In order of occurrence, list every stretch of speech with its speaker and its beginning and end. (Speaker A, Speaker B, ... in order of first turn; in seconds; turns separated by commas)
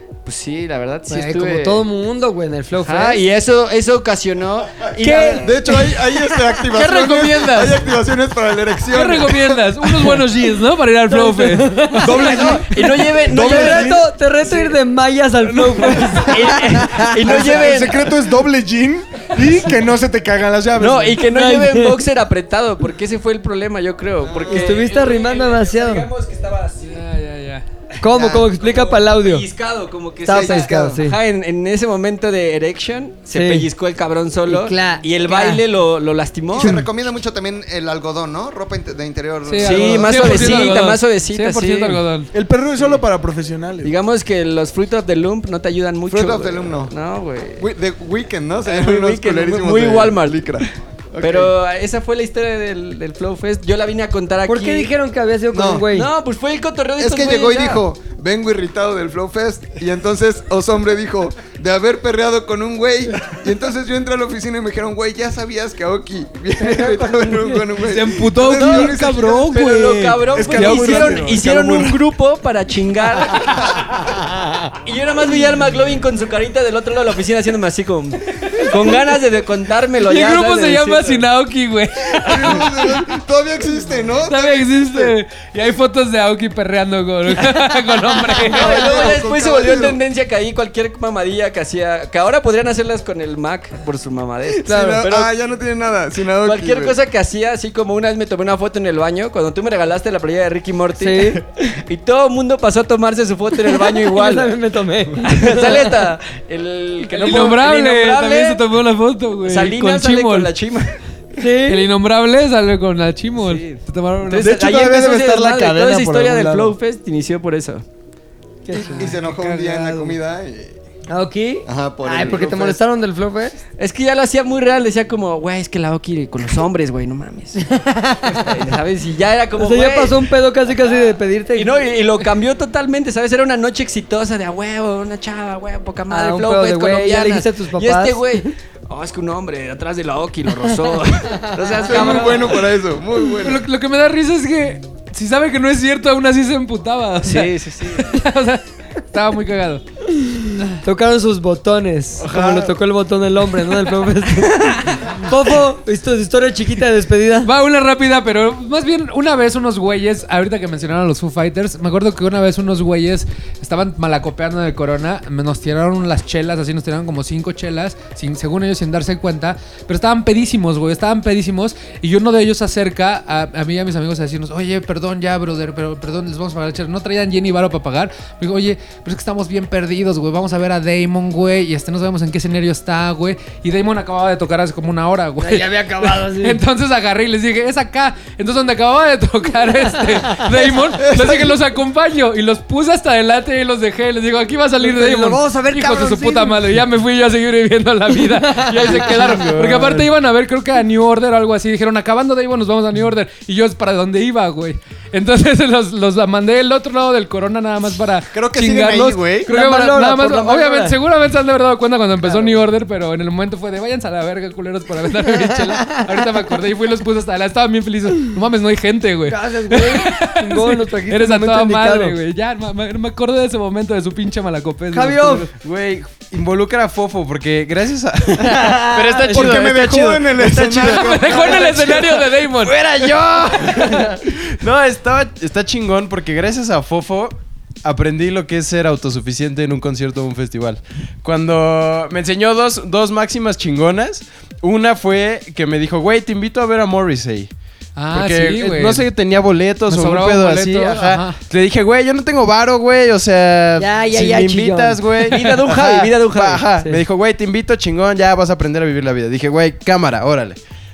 Speaker A: 0.2-1.9, Speaker B: 1.1-3.2, Speaker A: 2.8-5.8, Speaker B: 5.0-5.5, Speaker C: 5.2-10.2, Speaker D: 6.7-7.8, Speaker D: 8.9-12.4, Speaker B: 11.1-12.7, Speaker E: 12.0-12.7, Speaker A: 12.0-14.5, Speaker E: 13.2-14.1, Speaker B: 13.3-17.1, Speaker A: 16.3-18.1, Speaker E: 17.2-21.2, Speaker A: 20.8-27.1, Speaker B: 21.3-22.0, Speaker C: 24.2-24.8, Speaker B: 24.5-26.1, Speaker D: 26.8-27.6, Speaker B: 28.0-29.4, Speaker C: 28.1-28.5, Speaker A: 28.6-36.9, Speaker B: 30.2-31.2, Speaker C: 30.3-31.0, Speaker B: 33.3-33.7, Speaker B: 34.5-35.6, Speaker C: 36.5-40.7, Speaker D: 39.5-42.3, Speaker A: 39.6-42.0, Speaker E: 42.3-43.9, Speaker A: 43.8-47.7, Speaker C: 46.1-46.9, Speaker C: 47.6-51.5, Speaker A: 48.6-50.6, Speaker A: 51.2-54.9, Speaker B: 54.5-56.1, Speaker C: 55.5-55.9, Speaker A: 55.9-57.8, Speaker C: 57.0-69.6, Speaker B: 66.6-67.7, Speaker D: 67.8-71.4, Speaker A: 68.5-73.8, Speaker E: 70.3-72.0, Speaker A: 74.8-81.3, Speaker D: 80.0-83.0, Speaker C: 82.2-85.2, Speaker D: 84.2-88.9, Speaker A: 87.5-95.3, Speaker C: 88.4-90.0, Speaker C: 94.5-97.0, Speaker B: 94.7-95.0, Speaker A: 96.4-104.5, Speaker B: 101.0-101.4, Speaker B: 103.8-105.9, Speaker A: 105.2-108.7, Speaker D: 107.1-110.5, Speaker A: 109.4-111.0, Speaker B: 111.4-111.9, Speaker D: 111.7-114.5, Speaker A: 113.4-117.8, Speaker E: 114.3-116.8, Speaker B: 118.7-119.1, Speaker C: 118.7-120.8, Speaker D: 118.8-120.2, Speaker B: 121.1-123.6, Speaker C: 121.7-122.8, Speaker A: 123.8-127.7, Speaker B: 127.6-128.5, Speaker A: 128.3-130.2, Speaker B: 129.6-131.7, Speaker A: 131.6-142.7, Speaker B: 136.1-138.2, Speaker C: 141.8-143.7, Speaker D: 143.4-149.8, Speaker A: 147.2-148.2, Speaker B: 150.8-157.5, Speaker D: 157.4-225.5, Speaker B: 185.4-186.6, Speaker C: 191.1-191.5, Speaker B: 194.8-196.6, Speaker B: 198.4-199.5, Speaker F: 198.8-200.1, Speaker C: 208.3-209.5, Speaker B: 209.5-211.0, Speaker B: 212.2-212.6, Speaker B: 219.3-222.2, Speaker B: 224.9-225.5, Speaker F: 225.6-247.5, Speaker B: 228.5-229.5, Speaker C: 229.2-232.2, Speaker D: 230.7-232.9, Speaker D: 247.9-249.1, Speaker F: 248.1-260.6, Speaker D: 249.9-251.4, Speaker B: 253.8-255.1, Speaker A: 255.3-256.7